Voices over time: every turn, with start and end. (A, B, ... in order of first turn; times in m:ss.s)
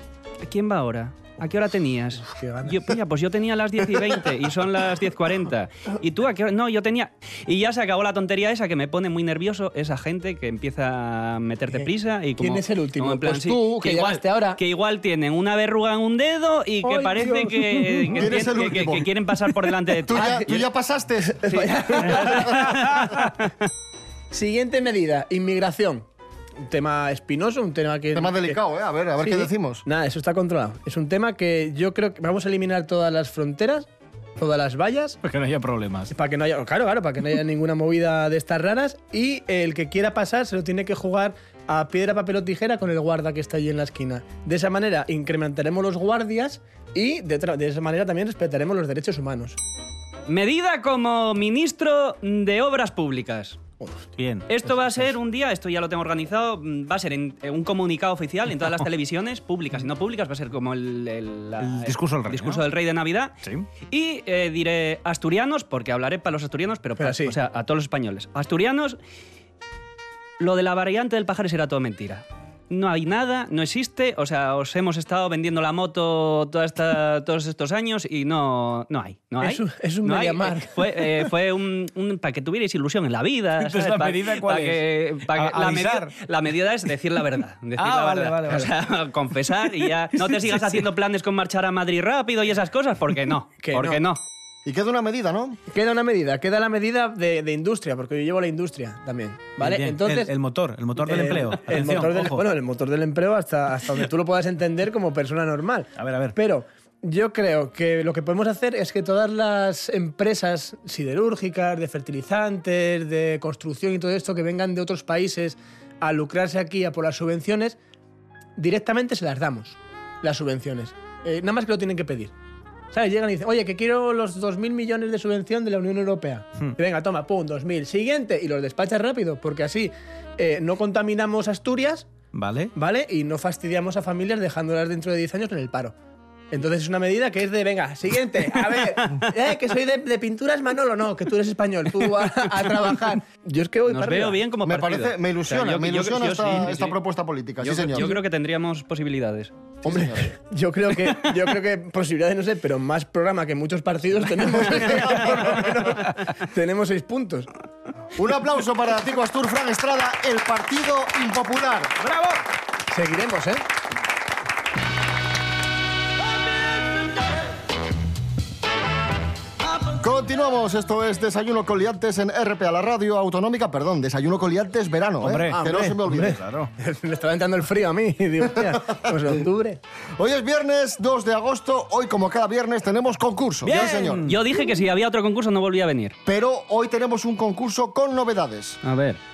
0:00.4-0:20.6 A
0:02.2-0:03.0 B
0:12.4-0:14.6 B
0:16.8-0:18.3 B
0:18.2-0:19.1 C
0:20.1-0:22.7 C
0:21.3-0:22.7 B
0:22.4-0:23.5 A
0:24.3-0:26.0 B
0:26.6-0:28.6 B
0:28.1-0:29.8 C
0:29.2-0:33.9 B
0:34.4-0:35.2 B
0:35.2-0:36.1 D
0:36.1-0:49.6 B
0:50.3-0:53.6 A
0:53.8-0:54.1 B
0:54.2-0:55.1 D
0:54.5-1:03.3 A
1:01.6-1:02.7 D
1:03.4-1:03.7 D
1:03.9-1:09.0 A
1:07.0-1:07.4 B
1:10.4-1:34.2 A
1:19.4-1:21.3 B
1:23.6-1:26.1 D
1:27.8-1:28.7 D
1:30.2-1:30.8 D
1:33.6-1:34.0 B
1:34.6-1:35.6 C
1:35.7-1:40.3 B
1:39.6-1:42.5 D
1:41.0-1:57.8 B
1:46.0-1:46.4 D
1:58.6-2:02.3 B
2:02.9-2:12.1 B
2:12.3-2:12.7 D
2:12.8-2:15.9 B
2:16.5-2:24.4 B
2:18.7-2:19.0 A
2:23.9-2:27.0 A
2:24.6-2:28.2 C
2:27.6-2:29.5 A
2:29.8-2:30.3 C
2:29.9-2:37.5 B
2:38.2-2:41.9 C
2:42.0-2:42.4 D
2:42.9-2:43.6 B
2:49.9-2:56.4 C
2:55.2-2:56.7 D
2:55.5-2:59.8 B
2:59.0-2:59.3 C
3:00.2-3:04.3 C
3:03.6-3:04.4 D
3:04.2-3:06.2 A
3:06.3-3:08.8 C
3:08.8-3:09.2 A